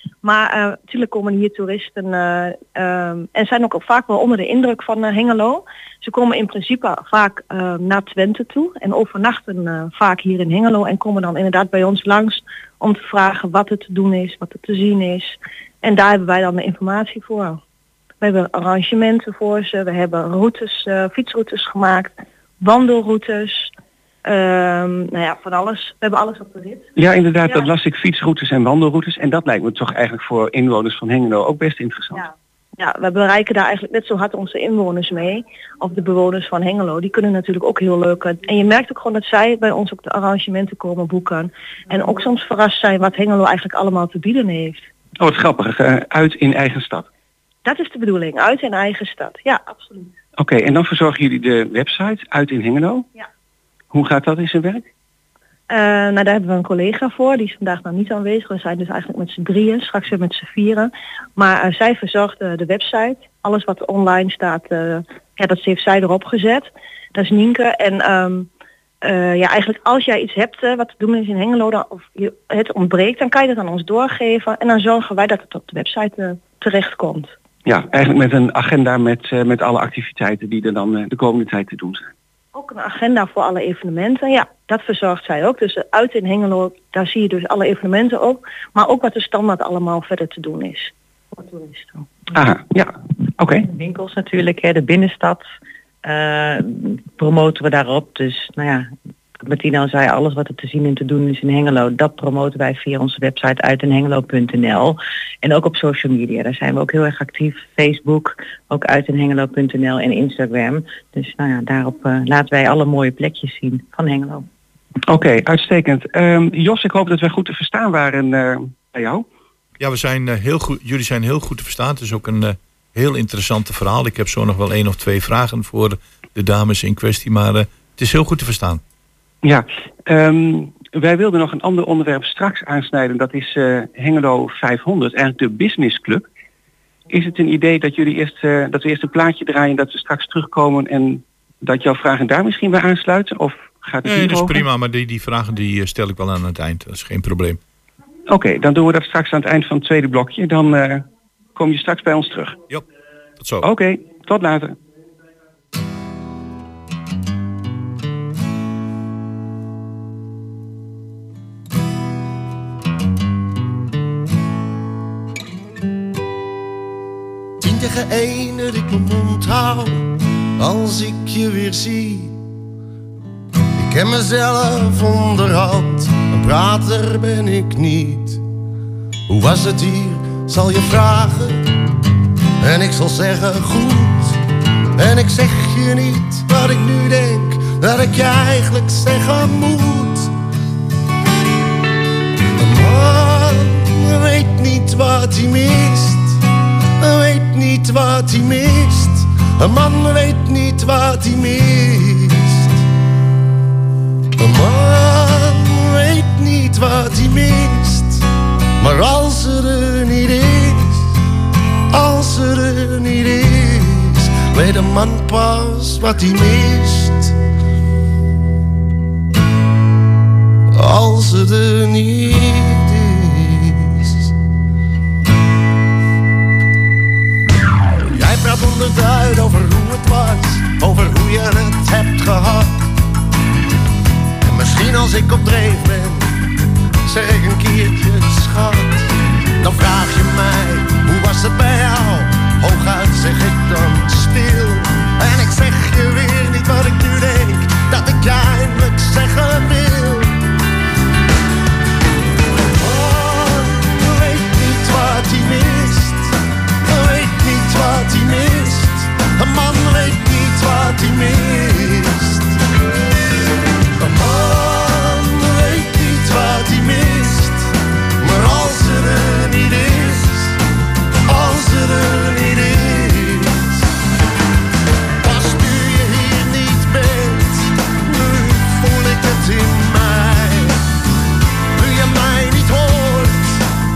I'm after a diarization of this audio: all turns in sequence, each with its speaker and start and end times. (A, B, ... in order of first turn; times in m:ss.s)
0:00.2-0:17.6 A
0:18.2-0:23.7 A
0:24.2-0:26.9 A
0:27.0-0:32.2 B
0:32.8-0:44.8 A
0:45.2-0:47.1 B
0:47.6-0:50.1 A
0:50.4-0:53.1 B
0:53.9-0:54.9 B
0:55.7-1:08.5 A
1:09.0-1:17.3 A
1:17.6-1:22.1 B
1:22.5-1:32.1 A
1:32.3-1:33.6 B
1:33.6-1:35.4 C
1:36.0-1:38.9 C
1:39.4-1:54.4 C
1:55.1-1:59.2 B
1:59.8-2:08.8 D
2:09.4-2:16.3 B
2:17.1-2:24.6 B
2:24.0-2:27.6 D
2:28.3-2:32.6 B
2:33.4-2:33.7 D
2:33.6-2:34.8 B
2:47.6-2:50.0 E
2:50.6-2:52.4 E
2:53.8-2:58.4 E
2:59.3-3:01.6 E
3:02.6-3:04.4 E
3:05.0-3:10.3 E
3:12.6-3:16.4 E
3:17.0-3:22.8 E
3:24.4-3:28.2 E
3:28.8-3:31.0 E
3:31.9-3:37.4 E
3:40.7-3:44.3 E
3:48.0-3:52.9 E
3:54.4-3:56.4 E
3:57.0-4:10.4 E
4:12.6-4:22.6 E
4:24.0-4:30.6 E
4:31.2-4:33.8 E
4:35.2-4:40.8 E
4:41.7-4:43.6 E